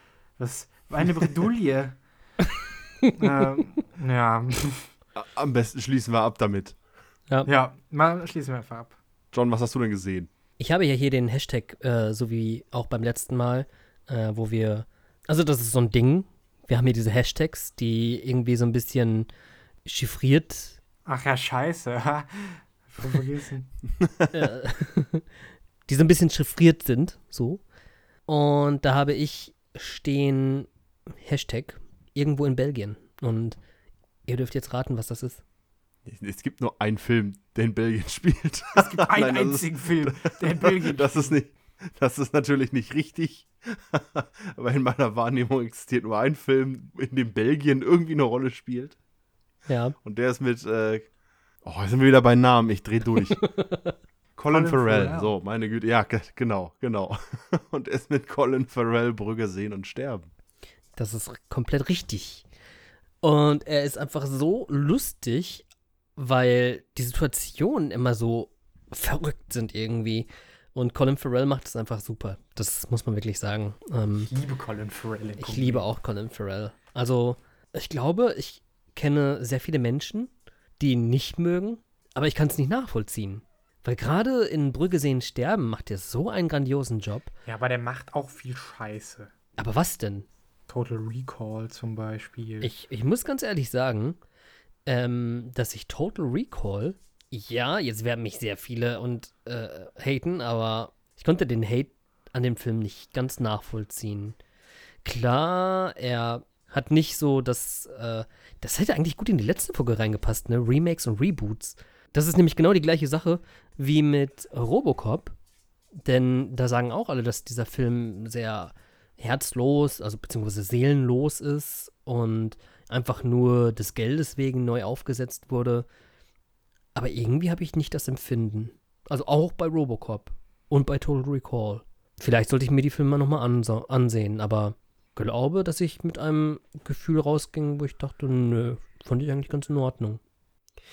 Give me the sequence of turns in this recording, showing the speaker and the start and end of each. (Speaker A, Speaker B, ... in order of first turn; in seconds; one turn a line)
Speaker A: 0.4-2.0
Speaker A: 3.2-4.9
Speaker B: 5.2-6.8
Speaker A: 7.5-9.0
Speaker B: 9.3-10.3
Speaker C: 10.6-19.3
Speaker C: 19.9-20.8
Speaker A: 21.1-23.7
Speaker C: 24.3-25.3
Speaker C: 25.9-27.6
Speaker C: 28.3-30.7
Speaker C: 31.2-33.6
Speaker C: 34.2-35.4
Speaker B: 36.1-49.0
Speaker A: 38.8-41.3
Speaker C: 49.7-50.0
Speaker B: 50.0-51.1
Speaker B: 51.6-53.4
Speaker C: 53.3-54.0
Speaker B: 54.4-60.3
Speaker A: 54.5-55.3
Speaker C: 61.0-62.4
Speaker C: 63.2-74.3
Speaker A: 74.2-75.9
Speaker C: 75.4-87.3
Speaker A: 87.5-89.3
Speaker C: 89.6-90.3
Speaker A: 90.7-92.7
Speaker C: 92.6-94.2
Speaker C: 94.9-104.4
Speaker C: 105.0-115.3
Speaker C: 116.0-125.9
Speaker C: 127.0-140.2